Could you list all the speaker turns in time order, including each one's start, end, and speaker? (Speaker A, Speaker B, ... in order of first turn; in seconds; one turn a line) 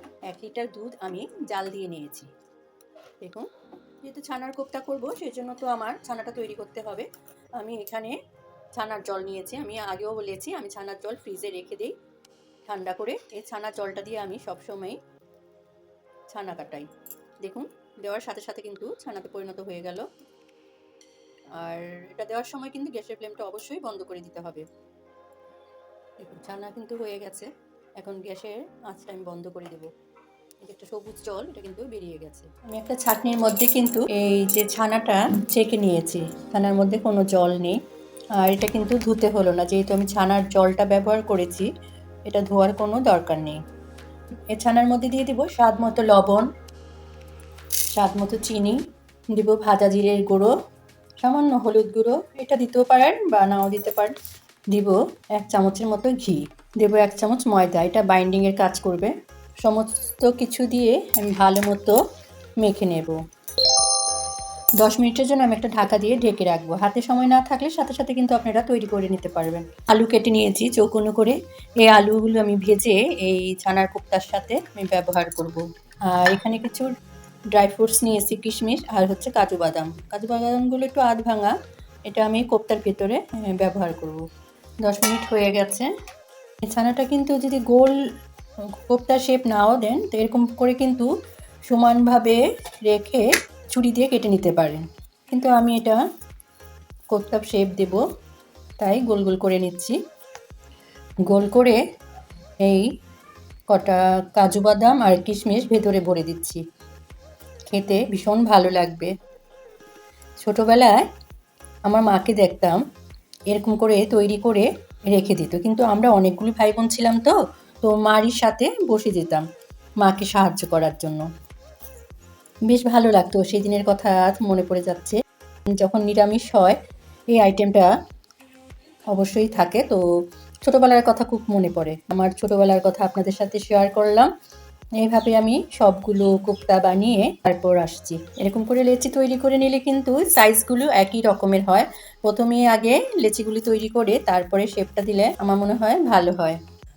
Speaker A: 0.3-2.3
Speaker A: 4.0-7.1
Speaker A: 7.6-8.2
Speaker A: 8.7-11.9
Speaker A: 12.7-15.0
Speaker A: 16.3-16.9
Speaker A: 17.4-20.1
Speaker A: 21.6-24.6
Speaker A: 26.2-29.9
Speaker A: 30.6-37.8
Speaker A: 38.4-41.7
Speaker A: 42.3-43.6
Speaker A: 44.5-46.5
Speaker A: 47.9-48.8
Speaker A: 49.3-50.5
Speaker A: 51.2-54.1
Speaker A: 54.7-62.0
Speaker A: 62.6-63.2
Speaker A: 64.8-76.9
Speaker A: 77.5-81.5
Speaker A: 82.1-84.2
Speaker A: 84.8-85.9
Speaker A: 86.6-88.0
Speaker A: 88.8-91.1
Speaker A: 91.7-96.0
Speaker A: 97.1-98.0
Speaker A: 98.8-100.0
Speaker A: 101.3-101.8
Speaker A: 103.7-106.6
Speaker A: 107.7-109.1
Speaker A: 110.4-111.0
Speaker A: 111.9-112.8
Speaker A: 113.5-119.4
Speaker A: 120.0-121.2
Speaker A: 122.7-126.8
Speaker A: 127.3-127.9
Speaker A: 129.1-130.0
Speaker A: 130.6-134.3
Speaker A: 135.0-146.6